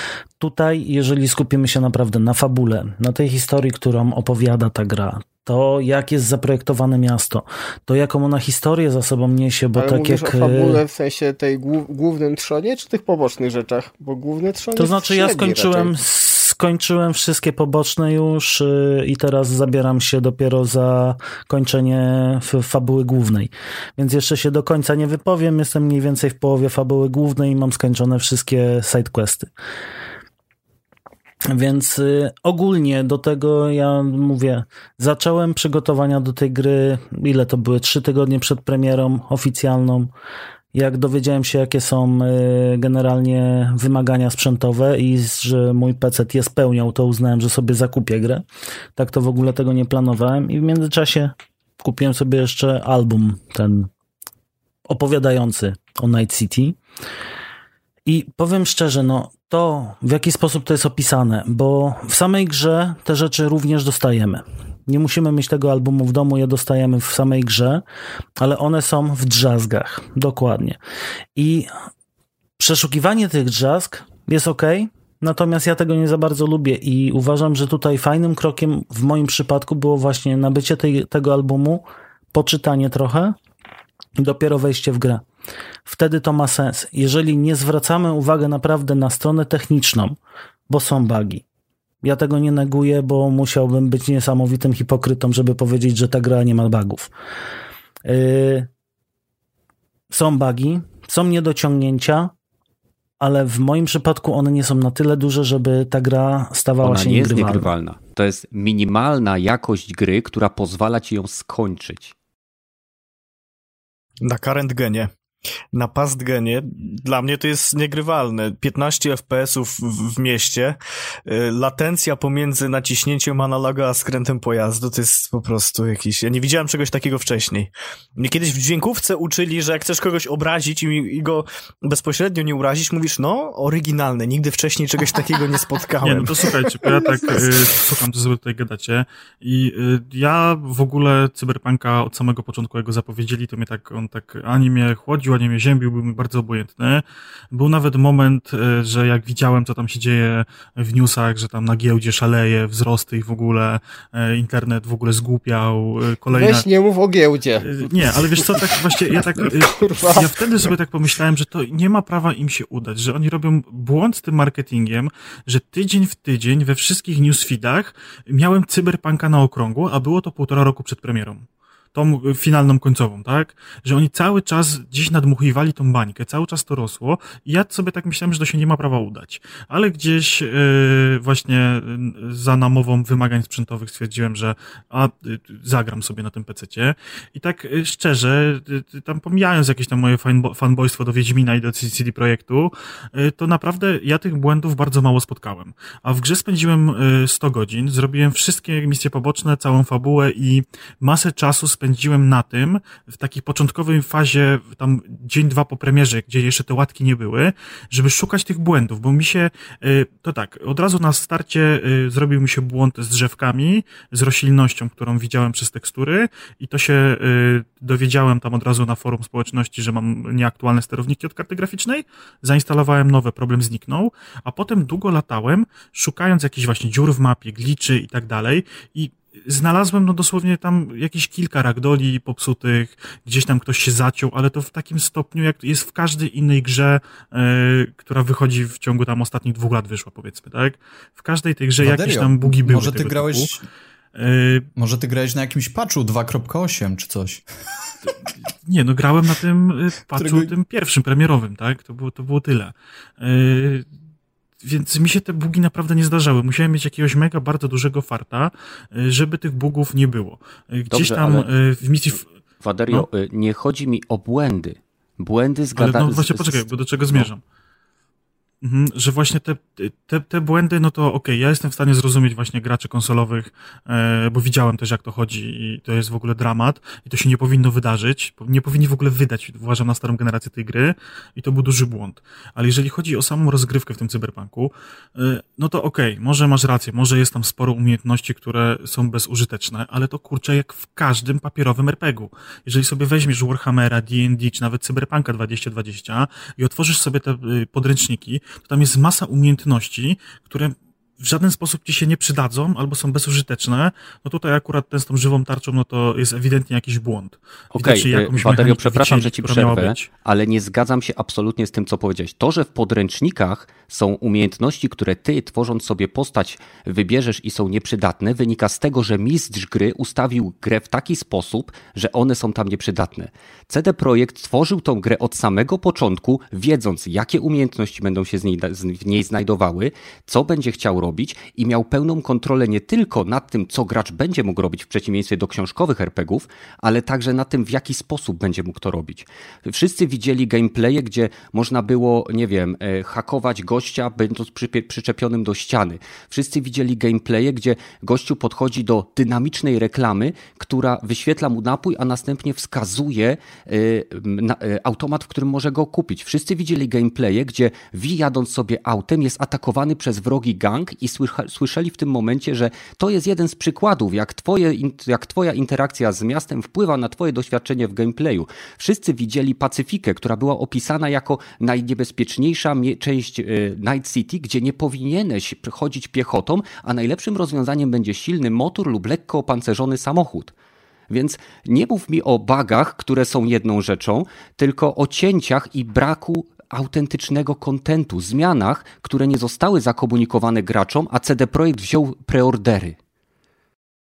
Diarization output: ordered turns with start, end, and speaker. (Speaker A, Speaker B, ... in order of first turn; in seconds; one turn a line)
Speaker A: 0.4-10.8
Speaker B: 9.7-15.9
Speaker A: 14.7-29.5
Speaker A: 31.5-40.1
Speaker A: 40.7-48.4
Speaker A: 49.0-53.9
Speaker A: 54.9-56.8
Speaker A: 58.1-67.8
Speaker A: 68.4-70.8
Speaker A: 71.3-71.7
Speaker A: 72.6-83.3
Speaker A: 84.2-85.2
Speaker A: 85.8-90.2
Speaker A: 90.7-91.4
Speaker A: 92.0-97.1
Speaker A: 98.0-98.7
Speaker A: 100.1-102.3
Speaker A: 103.2-107.7
Speaker C: 106.8-112.1
Speaker D: 114.2-115.1
Speaker D: 115.7-136.6
Speaker E: 136.0-156.7
Speaker B: 156.3-160.7
Speaker E: 157.6-243.5
Speaker F: 241.8-243.6
Speaker E: 244.2-244.7
Speaker F: 244.8-247.4
Speaker E: 248.7-253.8
Speaker F: 250.2-250.5
Speaker E: 254.6-262.2
Speaker C: 260.9-261.5
Speaker C: 262.6-267.3
Speaker E: 265.8-267.4
Speaker E: 268.6-310.1
Speaker C: 307.7-380.5
Speaker C: 381.1-392.9